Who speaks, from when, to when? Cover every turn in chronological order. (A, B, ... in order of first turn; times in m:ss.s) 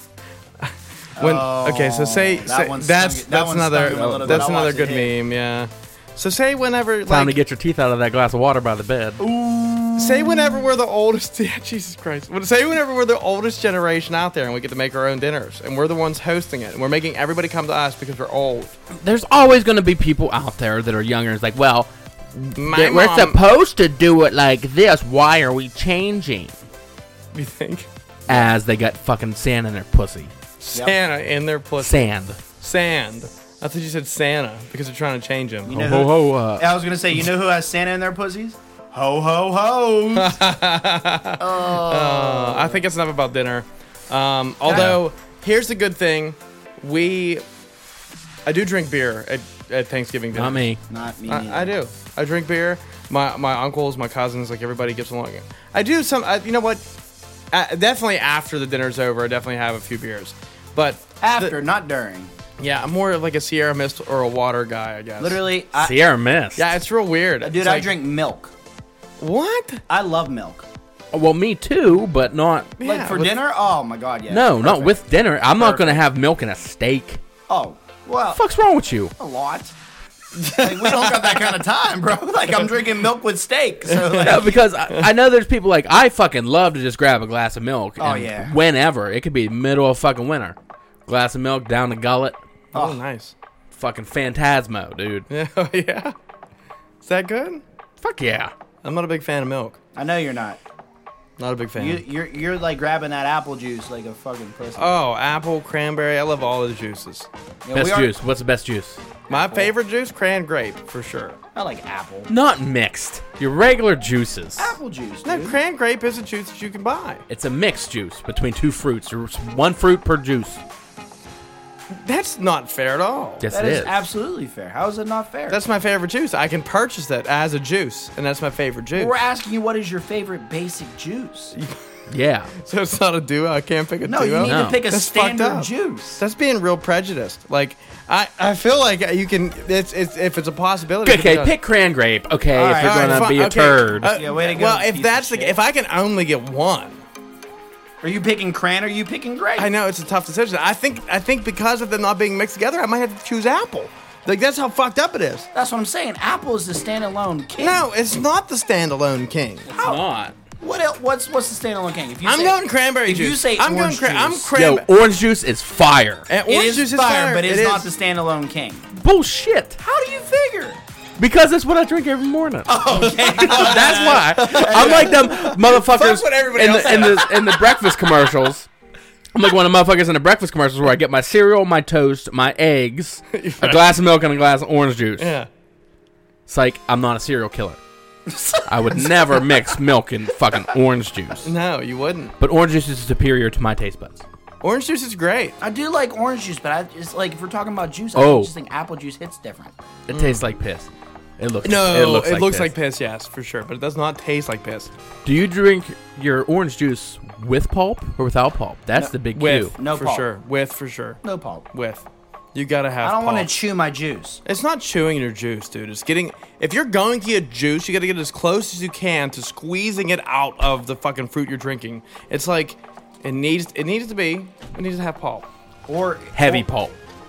0:00.6-0:07.4 A
0:01.2-0:05.2 B
0:03.9-0:04.5 C
0:07.1-0:09.2 C
0:09.2-0:10.7 B
0:10.0-0:18.8 A
0:19.0-0:26.6 C
0:22.6-0:23.4 A
0:27.3-0:27.9 A
0:28.3-0:30.3 C
0:30.6-0:35.8 A
0:31.8-0:32.4 C
0:35.7-0:40.4 B
0:35.7-0:36.7 C
0:40.2-0:47.4 A
0:41.4-0:42.8 B
0:44.6-0:45.0 B
0:44.7-0:45.0 C
0:48.5-0:50.6 A
0:50.4-0:50.8 C
0:50.9-0:51.8 B
0:51.3-0:56.8 A
0:57.5-1:01.5 A
1:01.2-1:02.3 B
1:02.6-1:05.4 A
1:05.2-1:06.0 B
1:05.8-1:06.7 C
1:06.6-1:07.9 A
1:07.4-1:08.5 B
1:09.2-1:09.8 A
1:09.9-1:10.6 B
1:11.1-1:12.8 C
1:12.8-1:13.4 A
1:12.8-1:15.0 B
1:14.3-1:17.2 C
1:15.6-1:16.0 B
1:17.5-1:18.4 B
1:18.4-1:19.1 C
1:19.2-1:19.7 B
1:20.4-1:21.6 A
1:20.6-1:24.6 B
1:23.9-1:25.1 A
1:24.2-1:32.4 C
1:28.0-1:28.6 B
1:32.7-1:33.0 B
1:32.7-1:33.3 A
1:33.7-1:35.3 C
1:35.3-1:36.1 A
1:37.0-1:37.6 A
1:38.0-1:38.5 C
1:38.8-1:39.8 A
1:40.0-1:40.6 B
1:41.4-1:42.0 A
1:41.8-1:45.0 B
1:44.8-1:47.3 A
1:47.6-1:48.2 B
1:47.7-1:49.0 C
1:49.3-1:49.7 B
1:49.3-1:51.4 A
1:51.6-1:52.3 B
1:52.3-1:54.8 C
1:54.6-1:55.6 B
1:55.2-1:57.2 A
1:57.3-2:00.6 C
2:01.9-2:03.4 A
2:03.4-2:04.1 C
2:03.5-2:05.6 B
2:05.5-2:09.2 A
2:09.0-2:11.6 B
2:12.1-2:12.5 C
2:12.6-2:21.6 A
2:14.0-2:16.2 B
2:14.4-2:14.8 C
2:21.0-2:24.1 C
2:22.5-2:23.3 B
2:22.8-2:27.0 A
2:24.1-2:25.6 B
2:28.0-2:29.7 B
2:29.6-2:35.5 A
2:35.5-2:37.9 B
2:37.6-2:39.7 A
2:39.7-2:40.0 B
2:39.8-2:40.3 C
2:40.6-2:44.5 B
2:42.2-2:44.9 A
2:44.5-2:46.3 C
2:46.3-2:47.9 A
2:46.5-2:48.9 B
2:48.9-2:49.8 C
2:49.8-2:50.8 B
2:51.2-2:58.7 C
2:52.7-2:55.6 B
2:52.9-2:57.6 A
2:56.6-2:57.4 B
2:59.3-3:05.4 C
3:03.3-3:03.9 A
3:05.2-3:05.5 A
3:06.5-3:07.8 C
3:08.3-3:09.6 B
3:08.7-3:11.5 C
3:11.4-3:12.4 A
3:12.4-3:14.2 C
3:14.6-3:15.6 A
3:15.6-3:19.7 B
3:18.2-3:18.5 C
3:20.1-3:22.7 C
3:20.1-3:20.5 A
3:21.6-3:24.9 A
3:25.2-3:29.8 C
3:29.4-3:31.2 A
3:29.7-3:30.3 B
3:31.2-3:31.6 B
3:31.7-3:33.5 A
3:33.0-3:34.4 B
3:34.5-3:45.5 A
3:45.9-3:46.7 B
3:46.3-3:47.0 C